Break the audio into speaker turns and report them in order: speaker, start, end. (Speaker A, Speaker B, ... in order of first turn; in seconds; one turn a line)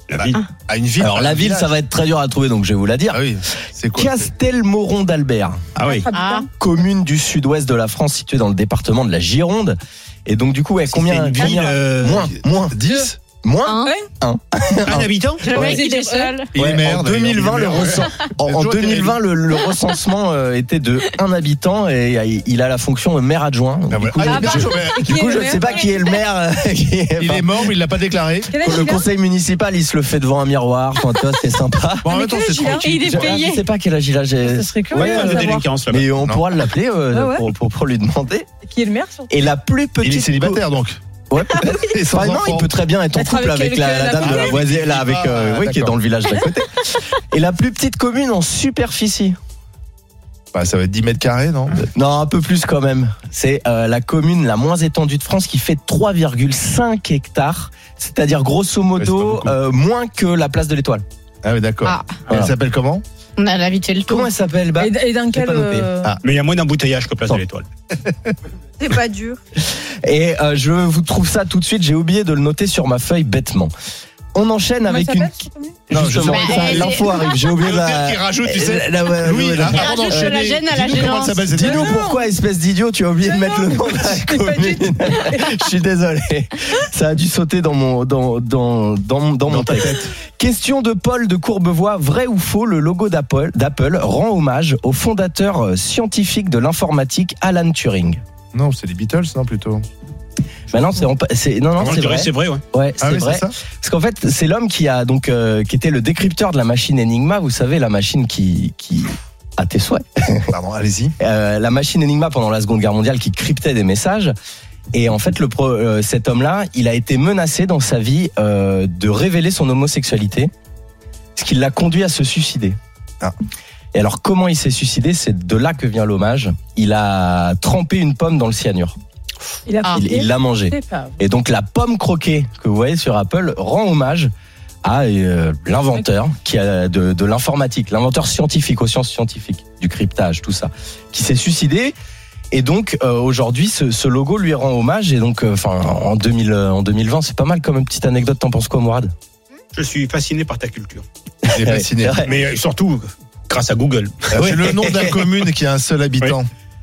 Speaker A: 0.1-1.7
Speaker B: 1.0-3.2
Speaker A: 3.1-4.2
Speaker B: 3.9-5.6
Speaker C: 5.8-6.1
Speaker D: 5.8-6.5
Speaker E: 6.1-6.4
Speaker B: 6.5-12.8
Speaker C: 10.9-12.3
Speaker A: 12.5-13.2
Speaker B: 13.4-15.7
Speaker C: 14.8-15.5
Speaker E: 15.4-16.5
Speaker D: 15.5-16.3
Speaker A: 16.5-19.2
Speaker B: 16.5-27.7
Speaker A: 23.9-25.1
Speaker D: 24.2-25.9
Speaker A: 27.2-28.5
Speaker D: 28.5-29.1
Speaker B: 28.5-32.1
Speaker A: 32.0-33.4
Speaker D: 32.1-33.1
Speaker E: 32.8-33.5
Speaker B: 33.0-38.5
Speaker D: 34.4-35.7
Speaker C: 34.9-36.1
Speaker D: 37.1-37.5
Speaker D: 38.6-39.3
Speaker B: 39.3-40.6
Speaker A: 40.0-41.0
Speaker B: 41.3-49.4
Speaker A: 41.7-42.7
Speaker D: 43.1-44.6
Speaker A: 44.2-45.9
Speaker A: 50.5-51.8
Speaker B: 51.8-61.0
Speaker A: 59.0-59.5
Speaker A: 61.4-63.0
Speaker E: 61.8-62.2
Speaker E: 63.4-64.1
Speaker B: 64.1-65.9
Speaker D: 64.8-66.2
Speaker C: 66.2-67.7
Speaker A: 68.1-68.3
Speaker D: 68.8-69.4
Speaker B: 69.7-73.7
Speaker B: 74.3-80.4
Speaker D: 74.9-75.8
Speaker A: 75.9-82.0
Speaker E: 76.3-77.0
Speaker E: 79.7-81.5
Speaker B: 81.5-98.2
Speaker D: 81.6-82.3
Speaker D: 83.3-85.6
Speaker A: 89.5-90.1
Speaker A: 98.5-99.8
Speaker B: 100.7-110.5
Speaker C: 101.8-102.6
Speaker A: 103.0-103.5
Speaker A: 110.5-111.1
Speaker B: 111.2-114.3
Speaker B: 114.9-120.5
Speaker B: 121.3-122.8
Speaker B: 123.9-128.9
Speaker D: 129.7-131.2
Speaker B: 129.9-134.3
Speaker B: 134.8-141.9
Speaker B: 142.5-149.1
Speaker C: 149.7-151.1
Speaker B: 151.4-152.3
Speaker A: 151.5-152.2
Speaker C: 152.2-154.3
Speaker A: 154.3-156.5
Speaker B: 154.3-155.3